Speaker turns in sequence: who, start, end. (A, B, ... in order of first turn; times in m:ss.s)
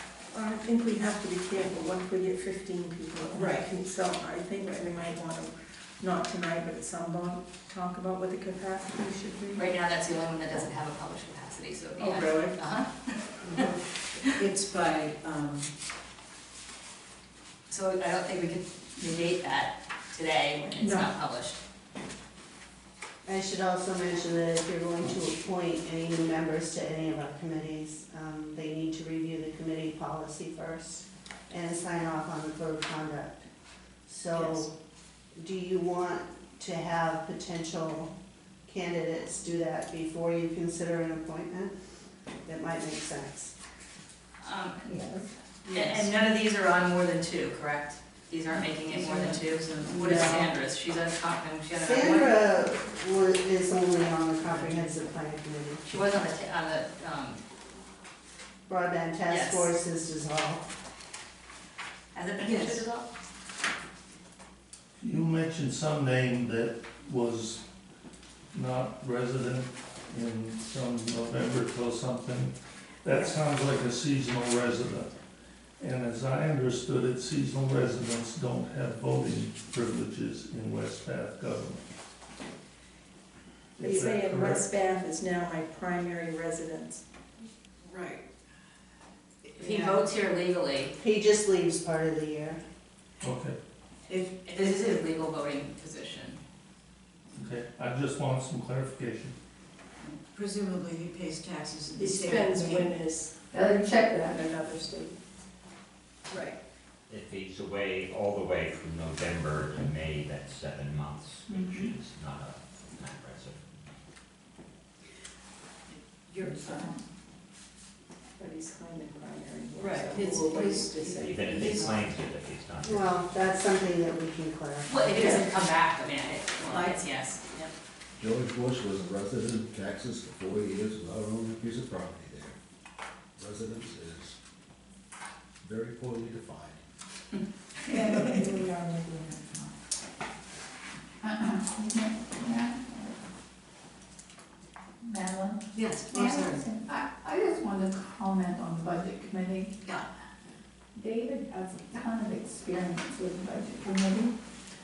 0:00.3-0:09.7 A
0:03.4-0:03.7 B
0:09.5-0:13.5 C
0:12.0-0:12.6 A
0:14.3-0:15.7 B
0:17.7-0:21.6 C
0:20.8-0:21.1 A
0:23.2-0:33.4 D
0:34.1-0:34.7 D
0:34.4-0:34.7 B
0:35.4-0:38.1 D
0:38.7-0:41.7 D
0:42.4-0:43.5 D
0:44.4-0:44.8 C
0:44.8-0:45.3 E
0:45.6-0:46.1 B
0:45.7-0:52.4 C
0:48.6-0:50.5 B
0:50.0-0:50.4 D
0:51.7-0:55.8 D
0:54.5-0:54.9 B
0:55.8-0:57.4 C
0:58.7-1:00.7 D
0:59.3-0:59.7 C
1:02.1-1:03.1 C
1:02.4-1:02.8 B
1:05.0-1:07.6 F
1:08.5-1:12.5 F
1:13.0-1:15.1 F
1:15.8-1:21.8 F
1:23.8-1:24.6 F
1:23.8-1:27.0 A
1:27.8-1:28.2 B
1:29.6-1:31.0 C
1:29.6-1:30.0 B
1:31.0-1:32.6 D
1:33.2-1:33.6 F
1:34.1-1:34.6 B
1:34.5-1:36.4 C
1:37.4-1:39.4 F
1:40.0-1:42.9 B
1:42.0-1:45.2 A
1:43.5-1:44.5 E
1:46.3-1:46.6 A
1:47.1-1:53.9 G
1:56.2-1:57.0 B
1:56.4-1:57.0 E
1:58.4-2:02.1 A
1:59.8-2:02.0 B
2:01.0-2:03.2 G
2:02.8-2:05.1 D
2:04.9-2:07.7 C
2:06.6-2:07.0 B
2:08.2-2:12.6 H
2:13.4-2:14.4 H
2:15.6-2:16.8 H
2:17.9-2:19.6 E
2:21.2-2:23.2 E
2:25.0-2:29.8 E
2:25.7-2:26.6 B
2:31.0-2:34.3 E